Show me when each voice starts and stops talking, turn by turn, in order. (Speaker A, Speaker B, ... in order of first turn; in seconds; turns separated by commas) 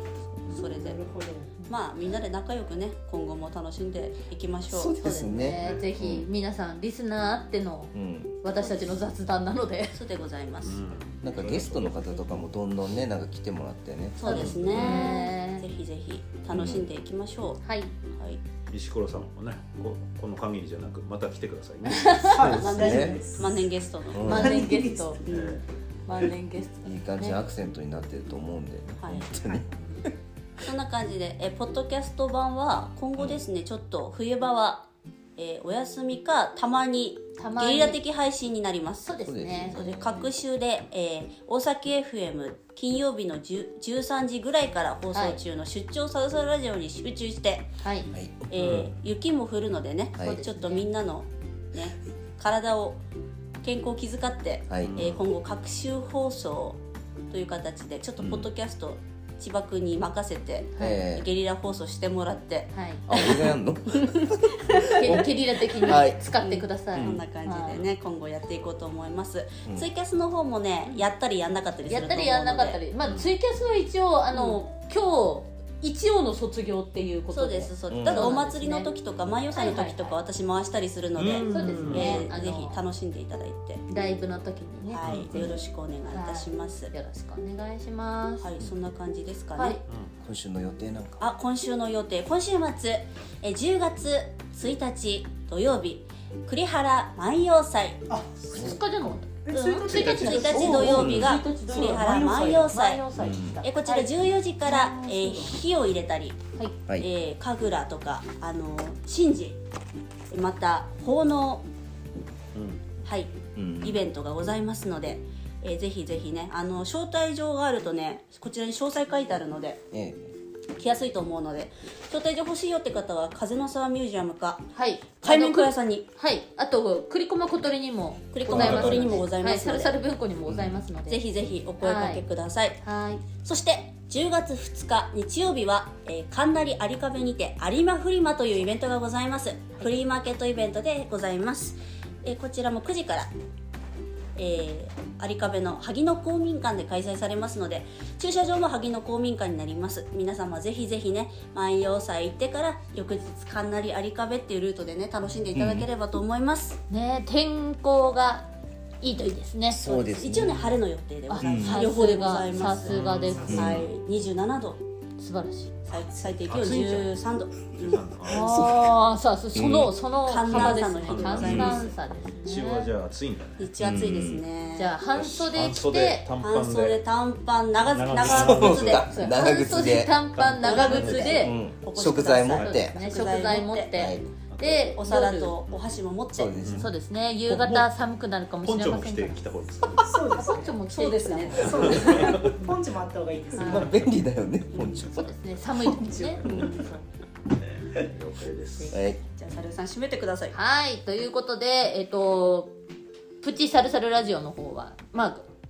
Speaker A: 0.5-1.1, Speaker B: 0.5-1.6, Speaker A: 1.6-5.1, Speaker C: 4.7-6.3, Speaker D: 5.0-10.0, Speaker E: 5.6-5.9, Speaker C: 7.9-8.4, Speaker A: 8.5-9.0, Speaker A: 9.9-10.8, Speaker E: 10.6-12.4, Speaker C: 11.2-15.2, Speaker A: 14.2-18.4, Speaker E: 14.2-15.1, Speaker D: 14.7-15.7, Speaker C: 16.5-16.9, Speaker D: 17.6-17.9, Speaker E: 18.7-22.7, Speaker D: 21.8-22.4, Speaker C: 22.3-23.2, Speaker B: 22.4-23.7, Speaker A: 22.6-25.6, Speaker C: 24.1-24.6, Speaker B: 24.2-25.3, Speaker D: 24.2-25.2, Speaker E: 25.3-25.6, Speaker D: 26.1-27.5, Speaker C: 26.8-30.1, Speaker A: 29.0-29.3, Speaker A: 30.6-39.1, Speaker D: 37.4-38.0, Speaker D: 39.0-39.8, Speaker C: 39.2-40.3, Speaker A: 39.6-47.7, Speaker D: 45.1-45.4, Speaker D: 47.8-48.1, Speaker C: 48.1-48.5, Speaker A: 48.5-53.0, Speaker E: 48.5-48.9, Speaker D: 50.2-50.9, Speaker A: 53.6-65.2, Speaker C: 54.7-55.2, Speaker E: 54.8-55.1, Speaker C: 58.2-58.5, Speaker D: 60.7-61.0, Speaker C: 60.8-61.2, Speaker D: 62.7-63.0, Speaker C: 63.1-65.2, Speaker D: 64.8-67.8, Speaker C: 65.8-66.2, Speaker A: 65.9-72.8, Speaker E: 66.9-67.2, Speaker D: 71.8-78.9, Speaker E: 73.0-73.3, Speaker A: 74.3-74.6, Speaker A: 77.3-83.8, Speaker C: 77.9-78.4, Speaker D: 79.5-80.2, Speaker E: 81.2-82.2, Speaker D: 81.5-82.8, Speaker D: 83.9-88.5, Speaker A: 84.9-86.9, Speaker E: 85.0-85.5, Speaker A: 88.4-89.8, Speaker D: 89.5-89.8, Speaker E: 89.9-90.1, Speaker C: 90.2-91.2, Speaker A: 91.2-98.0, Speaker B: 98.1-101.1, Speaker D: 98.5-104.2, Speaker C: 98.5-98.8, Speaker A: 99.5-103.0, Speaker C: 100.4-101.5, Speaker B: 101.7-102.6, Speaker C: 103.2-103.6, Speaker A: 103.6-106.4, Speaker B: 104.6-105.6, Speaker A: 107.0-109.6, Speaker A: 110.3-111.6, Speaker E: 112.5-112.9, Speaker A: 113.0-119.8, Speaker C: 113.5-114.0, Speaker C: 119.9-120.3, Speaker A: 120.8-124.7, Speaker D: 124.7-131.2, Speaker A: 125.2-126.1, Speaker A: 128.3-130.1, Speaker E: 128.5-129.2, Speaker C: 130.5-130.7, Speaker A: 131.1-132.8, Speaker D: 131.8-132.3, Speaker D: 132.8-133.2, Speaker A: 133.4-143.3, Speaker A: 144.3-156.8, Speaker C: 155.5-155.9, Speaker D: 156.9-158.5, Speaker D: 159.0-160.1, Speaker C: 159.7-160.7, Speaker A: 160.1-164.8, Speaker D: 161.3-163.6, Speaker C: 161.4-161.8, Speaker E: 162.8-163.8, Speaker B: 163.2-163.9, Speaker C: 163.5-163.8, Speaker D: 165.2-165.8, Speaker A: 165.9-168.0, Speaker E: 166.4-167.2, Speaker E: 167.7-168.6, Speaker D: 168.2-172.9, Speaker C: 168.4-168.9, Speaker C: 169.5-169.9, Speaker A: 170.2-171.9, Speaker E: 170.4-173.8, Speaker C: 171.4-171.8, Speaker A: 173.6-175.0, Speaker C: 173.8-174.4, Speaker D: 174.7-176.3, Speaker E: 175.1-177.0, Speaker A: 176.4-179.1, Speaker E: 177.8-179.1, Speaker C: 178.2-180.2, Speaker D: 179.1-181.6, Speaker E: 180.3-181.4, Speaker A: 180.6-184.1, Speaker C: 181.3-183.0, Speaker D: 182.5-185.6, Speaker C: 183.9-184.3, Speaker E: 184.5-185.0, Speaker A: 184.9-186.5, Speaker E: 185.7-186.0, Speaker C: 186.3-186.9, Speaker E: 186.6-186.9, Speaker D: 186.7-189.4, Speaker E: 187.5-187.8, Speaker E: 188.6-190.4, Speaker B: 190.0-190.8, Speaker D: 190.4-192.7, Speaker A: 190.9-192.3, Speaker E: 191.5-192.6, Speaker B: 191.5-194.0, Speaker D: 193.5-194.0, Speaker C: 193.6-195.3, Speaker A: 194.7-195.1, Speaker D: 195.1-196.4, Speaker B: 195.9-197.0, Speaker A: 196.4-197.0, Speaker E: 197.9-199.0, Speaker C: 198.9-199.2, Speaker A: 199.3-200.6, Speaker D: 200.5-202.8, Speaker D: 203.4-205.4